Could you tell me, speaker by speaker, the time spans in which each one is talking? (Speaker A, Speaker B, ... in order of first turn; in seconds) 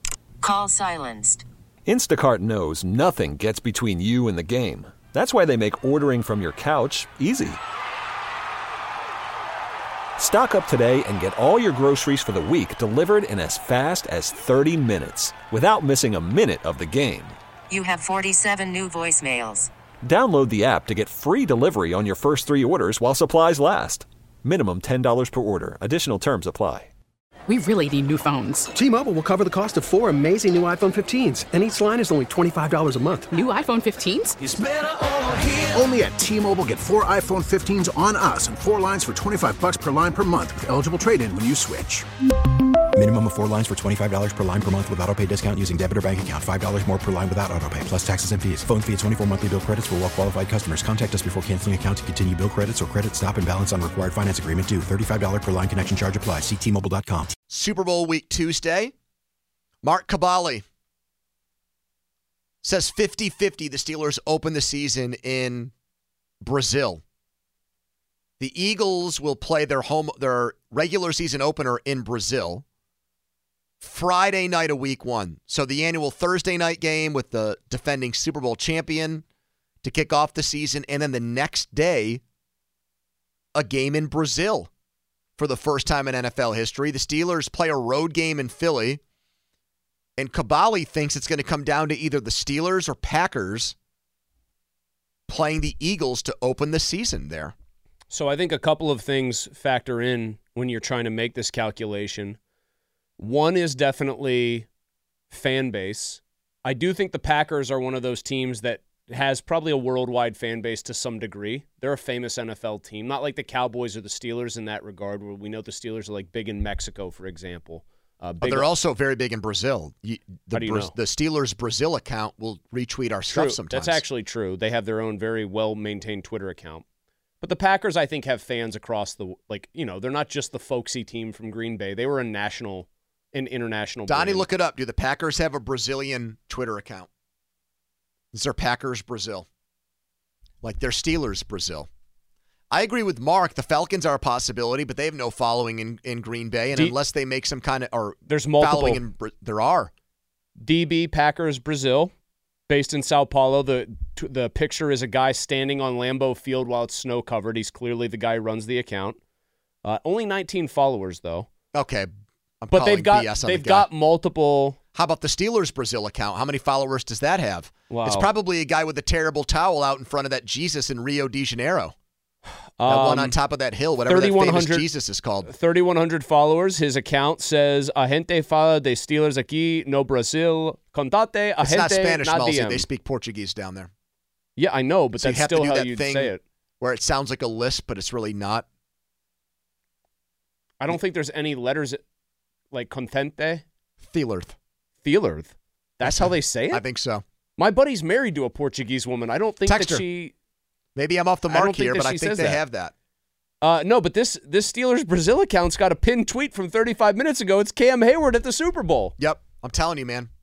Speaker A: 0.4-1.5, 17.7-19.7
Speaker B: 1.9-7.6, 10.2-17.4, 20.0-26.9
Speaker C: 27.5-28.7, 33.3-34.4
Speaker D: 28.8-33.3
Speaker E: 34.7-42.1
Speaker F: 43.0-57.3
Speaker G: 57.5-58.9, 59.8-60.6, 62.6-65.7, 66.4-67.0, 68.4-72.6, 73.8-79.2, 79.8-82.2, 83.5-84.7, 85.4-89.0, 90.2-93.8, 95.3-97.5, 118.4-124.0, 134.1-137.1, 138.3-139.5, 140.6-141.9, 142.7-149.9, 161.7-162.1, 162.6-163.9, 164.9-171.9, 172.9-175.5, 181.6-183.9, 185.2-188.7, 194.0-194.6, 196.0-197.2, 199.7-200.0, 201.0-202.9, 209.2-210.3
Speaker H: 98.1-102.4, 103.2-104.7, 105.3-118.7, 120.5-120.9, 123.3-126.8, 127.4-134.5, 148.3-149.0, 150.6-152.1, 152.7-159.2, 159.8-161.5, 162.7-164.8, 167.9-168.3, 172.8-173.4, 174.0-174.9, 175.4-182.9, 184.6-186.4, 190.8-192.0, 192.7-193.6, 195.0-196.8, 197.6-200.3, 201.5-202.6, 203.6-209.2